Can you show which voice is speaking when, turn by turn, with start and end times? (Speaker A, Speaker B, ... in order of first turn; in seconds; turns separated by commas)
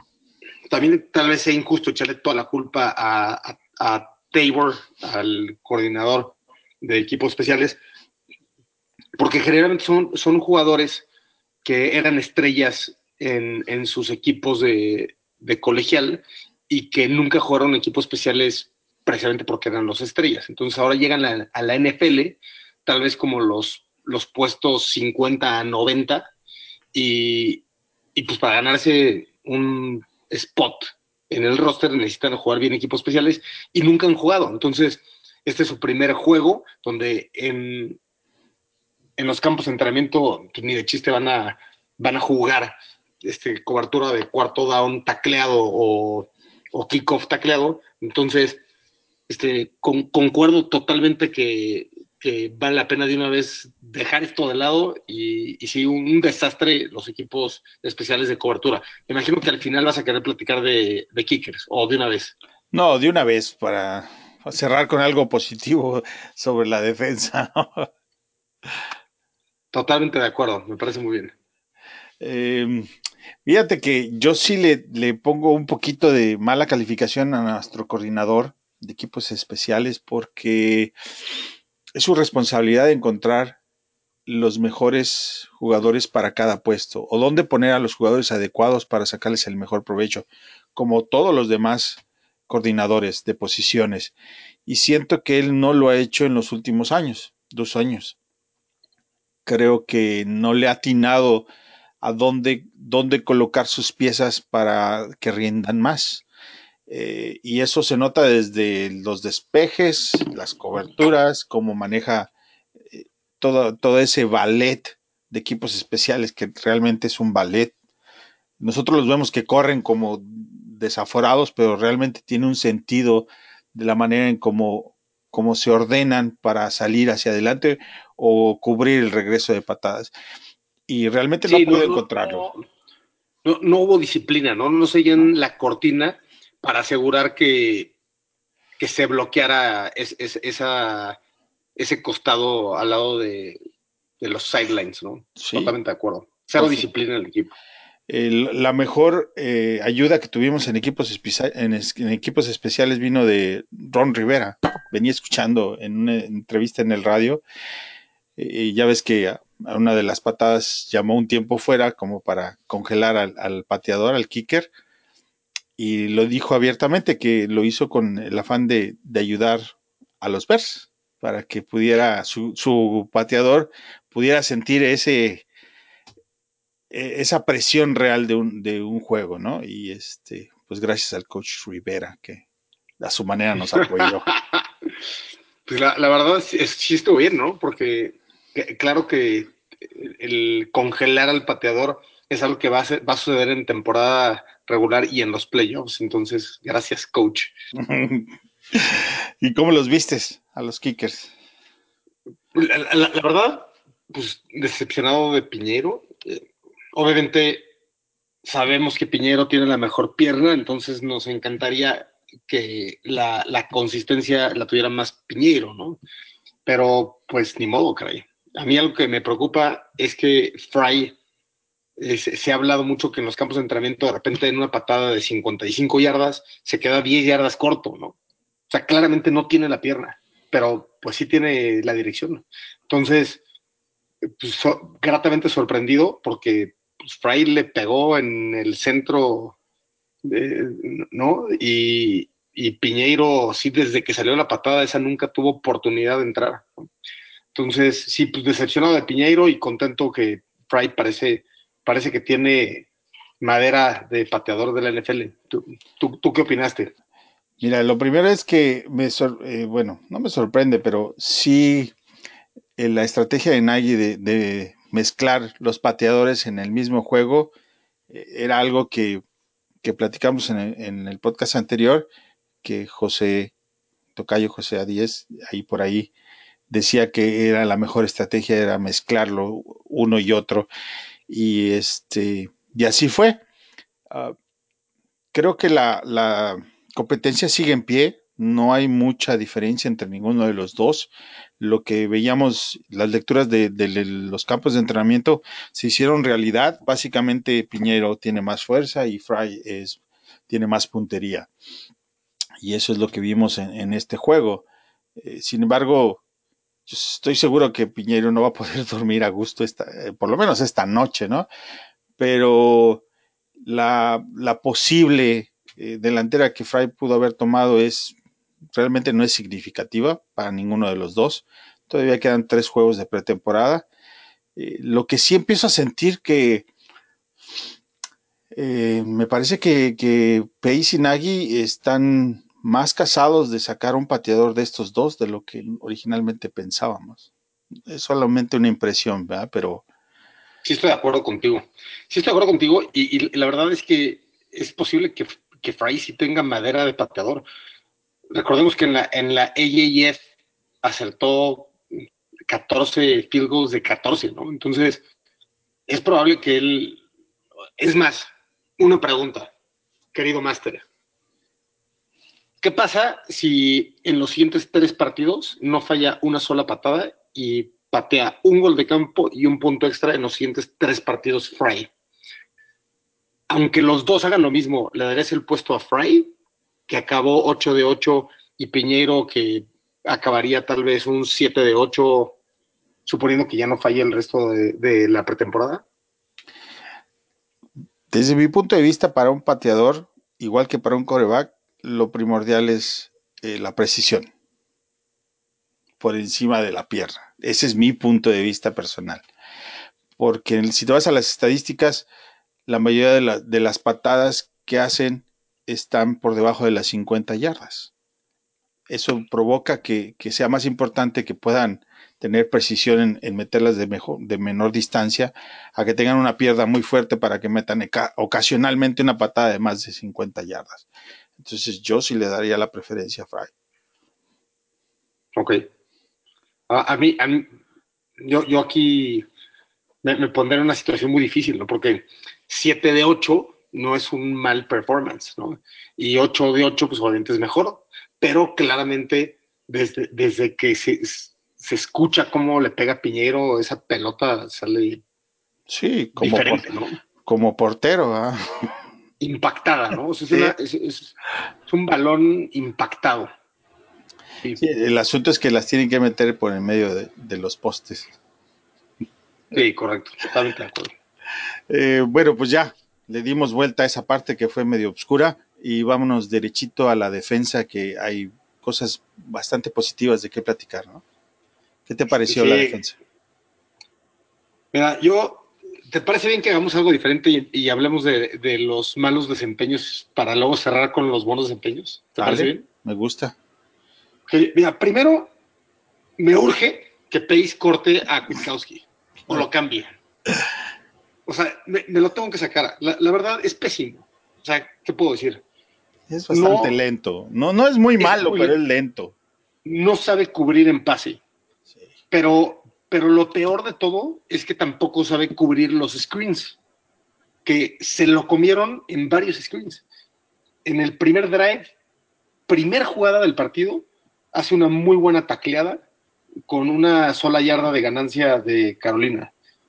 Speaker A: 0.7-7.8, Speaker A: 9.2-11.1, Speaker A: 11.6-26.3, Speaker A: 26.9-27.6, Speaker A: 28.1-38.0, Speaker A: 39.2-48.6, Speaker A: 49.3-62.3, Speaker B: 62.7-67.9, Speaker A: 69.7-71.3, Speaker B: 72.2-72.9, Speaker B: 73.4-80.9, Speaker B: 81.9-83.6, Speaker B: 84.2-94.1, Speaker B: 94.7-98.2, Speaker B: 99.5-101.5, Speaker B: 102.0-106.2, Speaker B: 106.9-112.3, Speaker B: 112.9-117.7, Speaker B: 118.6-130.1, Speaker B: 130.9-132.5, Speaker A: 131.5-132.6, Speaker A: 133.4-137.9, Speaker A: 138.8-141.2, Speaker A: 141.8-143.6, Speaker A: 144.2-147.5, Speaker B: 145.4-145.7, Speaker B: 146.6-146.8, Speaker B: 148.1-157.4, Speaker B: 158.4-164.7, Speaker B: 165.8-169.7, Speaker B: 170.2-175.4, Speaker B: 176.9-182.4, Speaker B: 183.0-184.3, Speaker A: 183.7-184.9, Speaker A: 185.7-197.5, Speaker B: 197.8-201.3, Speaker A: 202.5-207.7, Speaker A: 208.4-216.0, Speaker A: 216.7-221.2, Speaker A: 222.0-228.2, Speaker A: 228.7-233.4, Speaker A: 234.2-239.6, Speaker A: 240.2-246.8, Speaker A: 247.5-252.9, Speaker A: 253.4-256.9, Speaker B: 257.6-261.9, Speaker B: 262.8-267.5, Speaker B: 268.1-269.2, Speaker B: 269.8-272.1, Speaker B: 272.6-273.5, Speaker B: 274.1-276.1, Speaker B: 276.7-280.7, Speaker B: 281.3-283.4, Speaker B: 284.1-284.3, Speaker B: 285.3-301.5, Speaker B: 302.6-304.6, Speaker B: 305.2-306.2, Speaker B: 306.9-311.5, Speaker B: 312.2-313.0, Speaker B: 313.6-318.1, Speaker B: 318.7-323.9, Speaker B: 324.6-326.7, Speaker B: 328.5-337.3, Speaker B: 337.9-339.8, Speaker A: 340.6-347.4, Speaker A: 348.3-350.2, Speaker A: 350.8-351.8, Speaker A: 352.5-355.0, Speaker A: 355.9-357.0, Speaker A: 357.8-359.5, Speaker A: 360.1-360.9, Speaker A: 362.6-371.9, Speaker A: 373.5-376.3, Speaker A: 376.9-382.4, Speaker A: 383.1-385.8, Speaker B: 388.1-394.3, Speaker B: 396.0-399.2, Speaker B: 400.2-402.1, Speaker B: 402.7-407.9, Speaker B: 408.9-420.9, Speaker B: 421.4-423.5, Speaker A: 425.4-425.6, Speaker A: 426.7-427.5, Speaker A: 428.2-429.2, Speaker A: 430.0-445.0, Speaker B: 445.7-446.6, Speaker A: 446.2-447.0, Speaker B: 447.2-448.7, Speaker A: 449.2-451.1, Speaker A: 451.7-453.3, Speaker B: 454.6-458.1, Speaker A: 459.5-460.9, Speaker B: 461.7-471.0, Speaker B: 471.9-473.0, Speaker A: 472.3-472.8, Speaker A: 474.7-482.6, Speaker B: 482.2-483.3, Speaker A: 484.3-485.3, Speaker A: 486.2-489.9, Speaker A: 491.2-495.4, Speaker B: 496.1-499.1, Speaker A: 496.3-496.7, Speaker A: 498.0-498.5, Speaker A: 499.6-501.2, Speaker A: 502.1-506.6, Speaker A: 507.4-509.8, Speaker A: 510.6-511.7, Speaker A: 512.5-515.8, Speaker A: 516.5-519.3